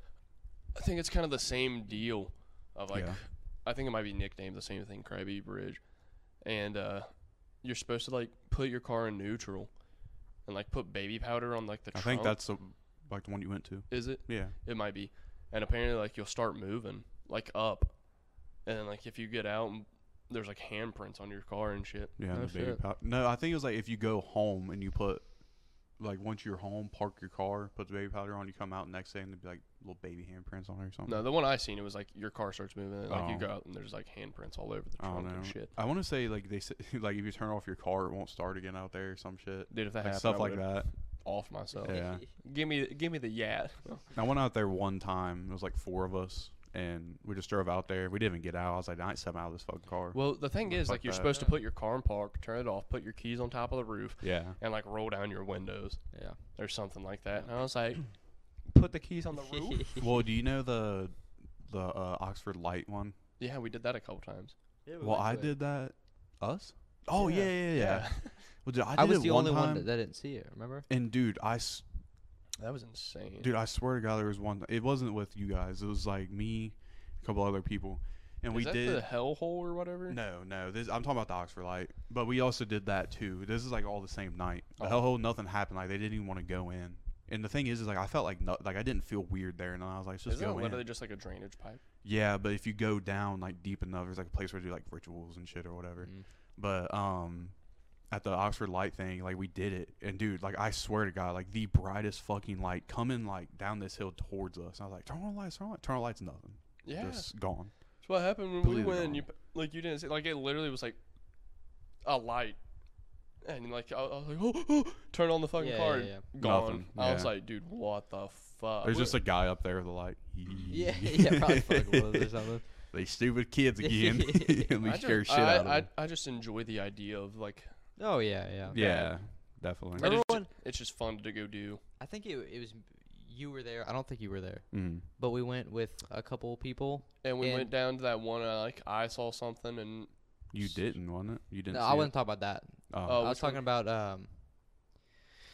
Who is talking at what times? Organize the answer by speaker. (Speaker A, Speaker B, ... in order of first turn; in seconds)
Speaker A: 0.7-12.4, 13.9-22.2, 31.1-35.8, 39.7-44.1, 50.1-60.1, 63.4-64.6, 67.1-68.4, 72.6-73.5, 78.5-80.2, 90.3-91.8, 106.8-112.6, 113.3-119.2, 124.8-128.1, 128.7-131.8, 137.2-140.8, 143.1-143.6
Speaker B: 2.9-3.2, 11.9-14.6, 22.2-31.2, 33.1-33.5, 35.0-40.9, 41.8-42.3, 44.1-51.4, 54.2-54.6, 60.0-63.1, 65.0-69.9, 70.9-71.8, 73.4-79.1, 80.1-90.9, 92.0-108.0, 108.6-109.3, 116.4-117.3, 118.8-125.9, 128.7-130.1, 134.7-135.1, 140.5-142.2, 142.9-143.2
Speaker C: 22.3-22.8, 41.9-42.2, 51.3-51.6, 56.1-56.4, 59.4-60.0, 64.8-65.6, 69.0-70.9, 96.0-96.3, 115.6-116.3, 120.7-122.9, 123.8-124.8, 128.0-128.8, 130.0-130.5, 132.0-137.7, 141.7-144.8